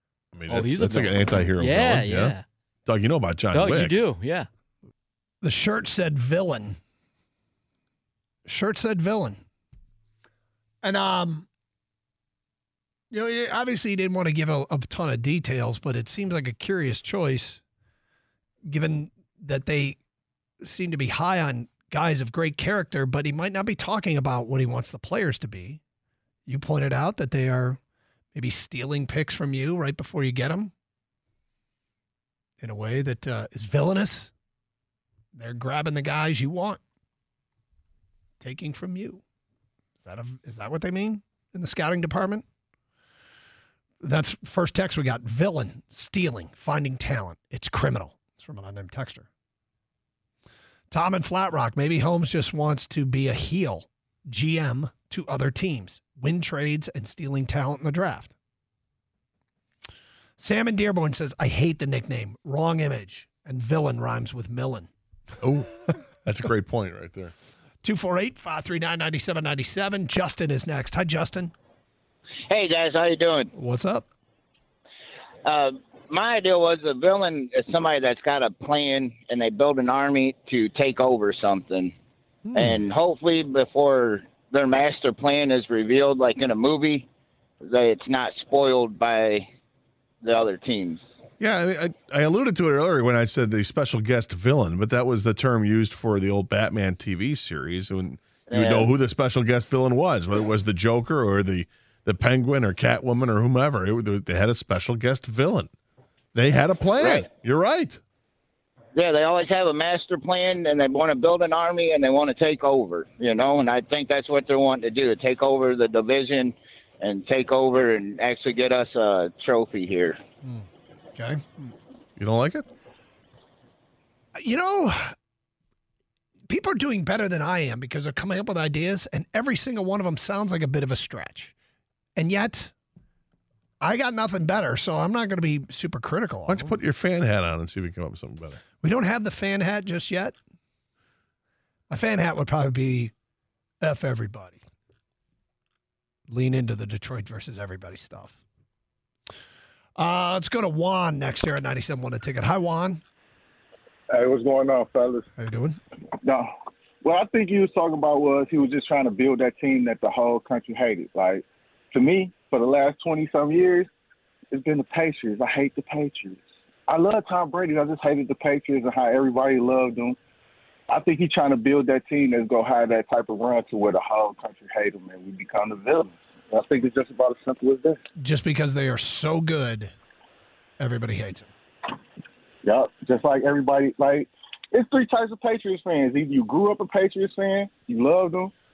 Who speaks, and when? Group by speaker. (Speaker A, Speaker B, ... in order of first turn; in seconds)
Speaker A: 0.3-2.4, 2.9-4.0, 65.4-67.3, 82.5-82.8, 91.4-105.7, 106.3-108.0, 122.2-122.7, 136.5-138.6
Speaker B: 0.5-2.4, 3.5-4.5
Speaker C: 5.4-6.8, 8.5-9.4, 10.8-11.5, 13.1-17.6, 18.7-20.0, 20.6-25.8, 26.5-27.8, 28.3-30.7, 32.6-34.3, 35.4-36.8, 38.4-39.2, 40.0-42.5, 44.0-49.3, 50.9-58.3, 60.4-64.9, 67.8-71.5, 73.5-74.1, 120.4-121.8, 124.4-125.1, 126.5-131.6, 132.2-132.7, 133.8-136.8, 138.8-140.4, 141.9-143.1, 143.8-144.6, 146.3-148.4, 150.0-153.0, 155.4-155.8, 178.2-179.9, 180.8-181.5
Speaker D: 72.5-73.5, 75.4-81.9, 82.5-87.1, 87.6-89.5, 90.2-91.0, 98.5-98.9, 107.0-107.3, 109.0-120.2
Speaker E: 154.1-155.2, 156.2-156.5, 157.0-163.9, 164.5-170.2, 170.9-178.0, 182.6-188.5